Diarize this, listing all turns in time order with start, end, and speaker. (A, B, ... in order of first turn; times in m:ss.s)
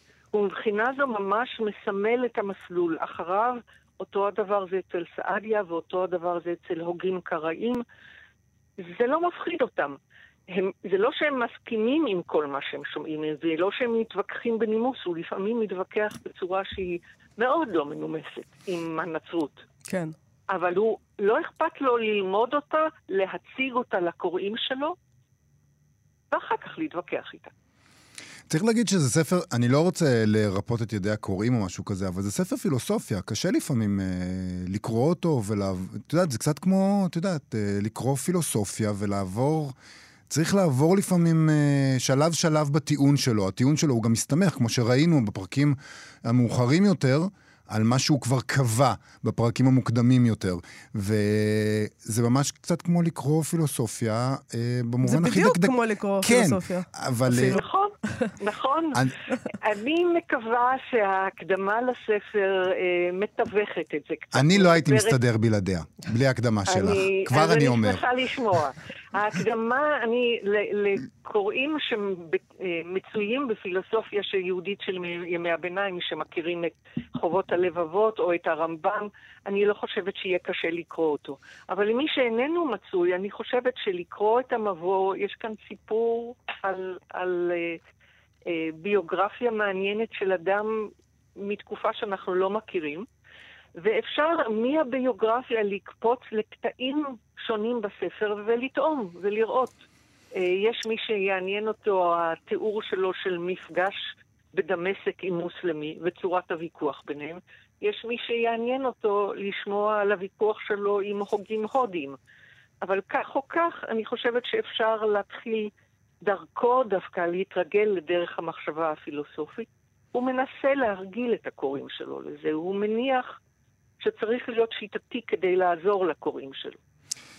0:00.3-0:07.8 A
0:08.8-0:10.0 A
0:10.5-0:19.6 A
0:19.9-0:20.1 B
0:20.5-0:25.0 A
0:26.3-0:27.5 A
0:28.5-0:39.7 C
0:40.3-0:57.6 C
0:55.0-0:57.6 B
0:57.3-1:05.2 A
1:04.3-1:08.0 C
1:06.7-1:27.8 A
1:28.4-1:33.1 A
1:33.8-1:39.8 A
1:40.4-1:52.2 A
1:52.8-1:55.7 A
1:56.2-2:03.3 A
2:04.0-2:06.8 A